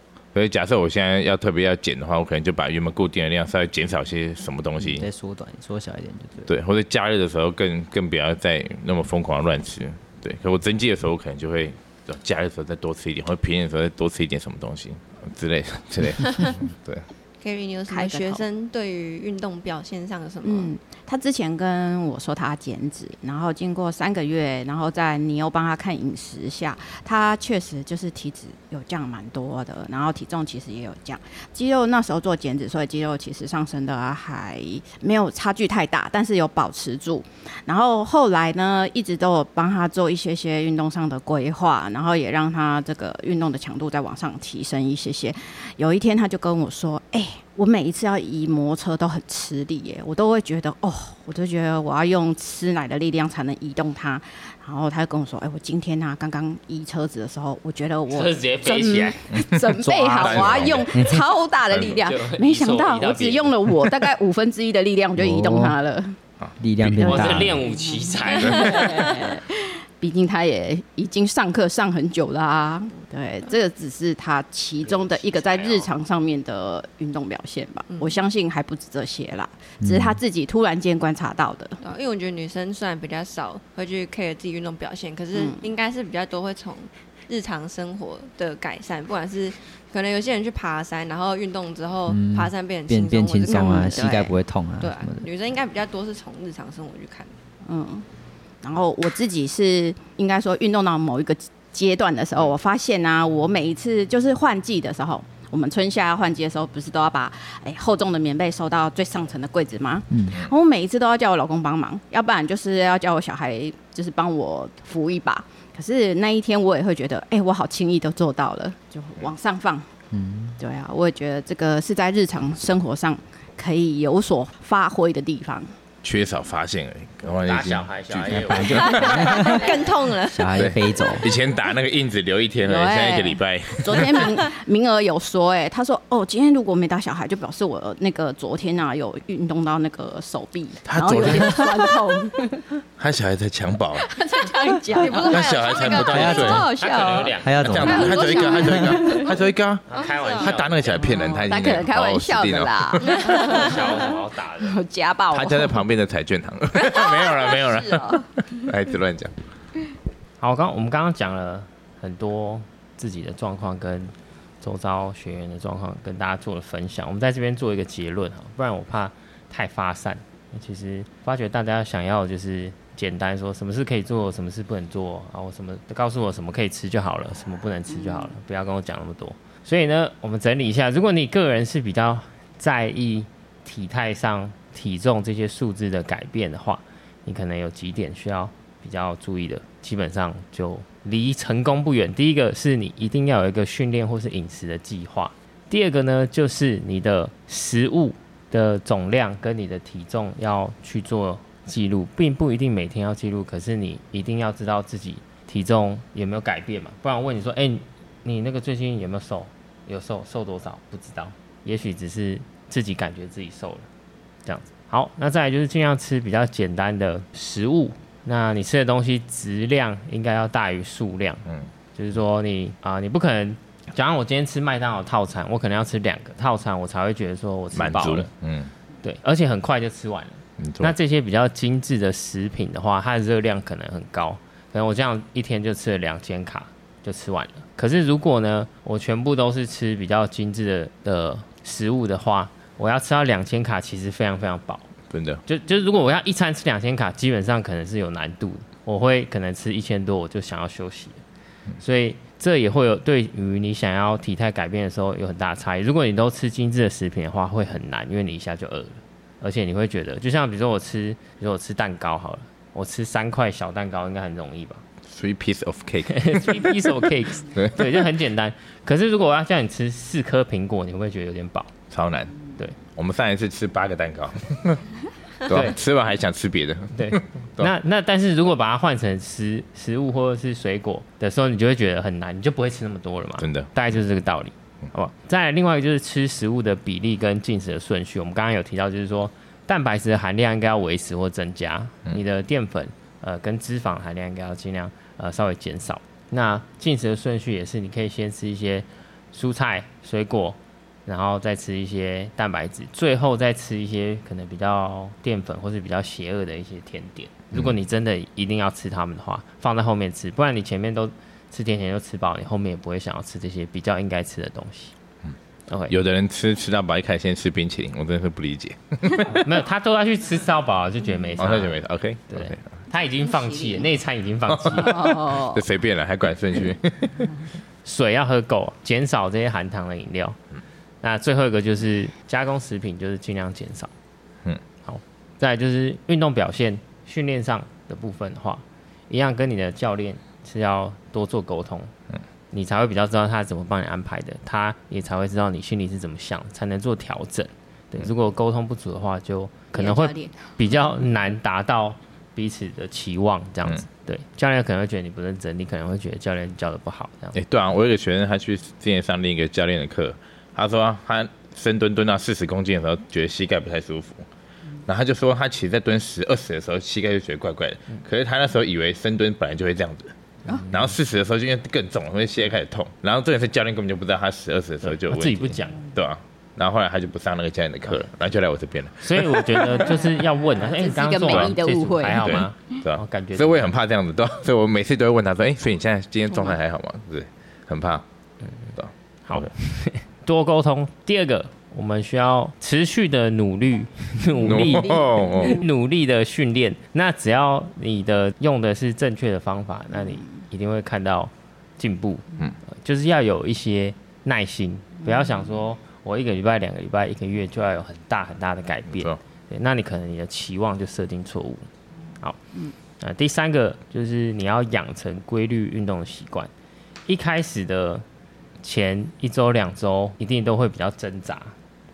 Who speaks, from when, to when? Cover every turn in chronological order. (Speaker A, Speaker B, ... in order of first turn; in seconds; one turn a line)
Speaker A: 0.3-5.0
Speaker B: 4.8-6.5
Speaker A: 6.5-17.1
Speaker C: 17.4-20.7
Speaker D: 17.9-18.4
Speaker D: 20.4-66.2
Speaker E: 58.1-59.2
Speaker A: 59.3-60.9
Speaker B: 59.8-61.2
Speaker A: 61.7-62.0
Speaker E: 61.9-63.9
Speaker B: 65.2-65.8
Speaker A: 66.4-67.5
Speaker B: 66.6-67.7
Speaker E: 67.0-69.2
Speaker D: 67.1-81.8
Speaker A: 68.4-68.8
Speaker E: 74.8-75.9
Speaker B: 79.8-80.2
Speaker C: 81.8-97.4
Speaker D: 85.3-85.6
Speaker B: 92.1-95.3
Speaker D: 93.5-93.9
Speaker D: 97.7-98.0
Speaker D: 98.6-119.9
Speaker B: 110.1-110.4
Speaker B: 120.1-120.6
Speaker D: 120.6-125.7
Speaker A: 126.0-129.2
Speaker E: 127.5-129.7
Speaker B: 128.2-131.3
Speaker C: 128.6-131.2
Speaker A: 130.5-134.4
Speaker D: 132.6-142.7
Speaker A: 140.8-141.9
Speaker A: 143.0-144.1
Speaker D: 143.9-149.4
Speaker C: 145.0-147.3
Speaker A: 145.3-146.7
Speaker B: 146.1-146.7
Speaker E: 146.7-148.2
Speaker B: 147.4-148.9
Speaker A: 147.6-153.2
Speaker E: 149.9-151.4
Speaker C: 150.0-150.5
Speaker D: 151.0-155.8
Speaker C: 153.1-154.0
Speaker E: 153.4-154.8
Speaker A: 155.3-159.3
Speaker D: 156.8-158.4
Speaker E: 160.4-213.9
Speaker D: 177.9-178.3
Speaker E: 214.4-228.3
Speaker A: 227.7-228.7
Speaker E: 229.0-244.9
Speaker A: 230.6-230.9
Speaker A: 245.1-245.4
Speaker E: 245.4-251.2
Speaker E: 251.8-264.8
Speaker A: 265.1-266.8
Speaker E: 266.1-271.7
Speaker A: 267.4-267.9
Speaker A: 271.9-272.4
Speaker A: 272.9-274.8
Speaker A: 275.5-277.7
Speaker E: 275.5-275.8
Speaker E: 276.9-314.9
Speaker A: 283.4-283.7
Speaker E: 315.7-315.9
Speaker A: 315.9-319.4
Speaker E: 319.3-321.8
Speaker A: 321.4-322.7
Speaker E: 322.3-325.2
Speaker A: 324.5-327.3
Speaker D: 325.0-325.6
Speaker E: 327.8-330.4
Speaker E: 331.0-333.9
Speaker E: 334.8-341.9
Speaker E: 342.5-357.4
Speaker D: 349.7-350.6
Speaker A: 357.3-364.2
Speaker A: 364.9-370.1
Speaker E: 370.5-370.9
Speaker A: 370.7-380.2
Speaker E: 374.8-375.8
Speaker E: 379.0-383.7
Speaker D: 380.6-382.8
Speaker A: 381.3-381.6
Speaker A: 382.1-388.0
Speaker E: 388.4-388.7
Speaker A: 388.8-389.5
Speaker E: 389.3-411.7
Speaker A: 394.4-395.6
Speaker A: 408.9-409.2
Speaker E: 413.0-416.5
Speaker E: 417.1-418.0
Speaker E: 418.6-421.6